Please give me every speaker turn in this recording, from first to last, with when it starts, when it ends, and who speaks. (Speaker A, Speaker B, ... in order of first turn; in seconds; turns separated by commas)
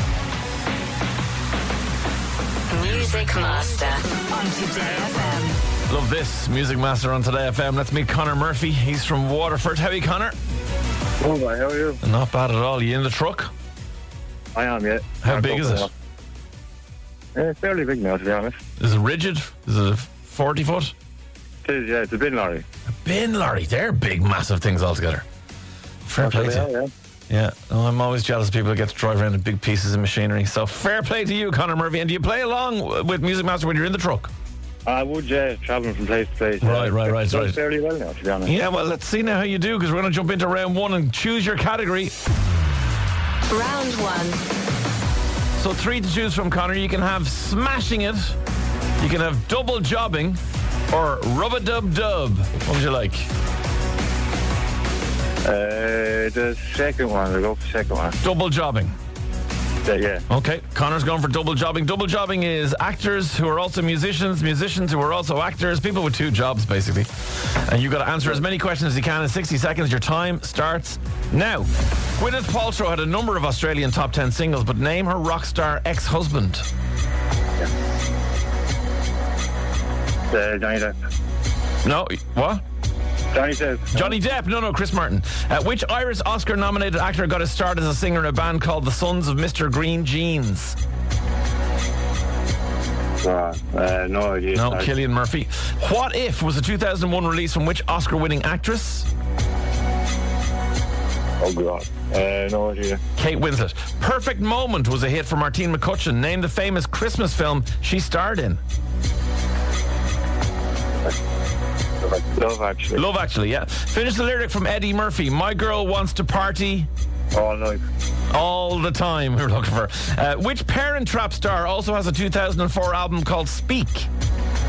Speaker A: 2.7-5.6, Speaker B: 5.9-10.3, Speaker C: 11.2-12.0, Speaker B: 12.0-13.5, Speaker C: 14.5-15.9, Speaker B: 15.2-15.9, Speaker C: 17.3-18.6, Speaker B: 18.8-20.9, Speaker C: 21.6-22.6, Speaker B: 23.0-25.2, Speaker B: 26.1-26.7, Speaker C: 26.2-26.9, Speaker B: 27.3-34.3, Speaker C: 34.9-38.5, Speaker B: 36.6-37.6, Speaker B: 38.4-42.1, Speaker A: 43.5-44.4, Speaker B: 45.6-48.4, Speaker B: 49.0-50.4, Speaker B: 50.9-53.3, Speaker C: 55.4-58.2, Speaker B: 58.2-58.9, Speaker C: 59.8-60.2, Speaker B: 60.3-76.7, Speaker C: 80.3-81.0, Speaker B: 81.8-82.6, Speaker C: 83.3-84.1, Speaker B: 83.9-90.8, Speaker C: 93.2-94.9, Speaker B: 94.5-99.1, Speaker C: 101.4-103.0, Speaker B: 103.2-108.6, Speaker C: 112.0-113.0, Speaker B: 112.9-116.9, Speaker C: 117.3-117.8, Speaker B: 118.3-124.1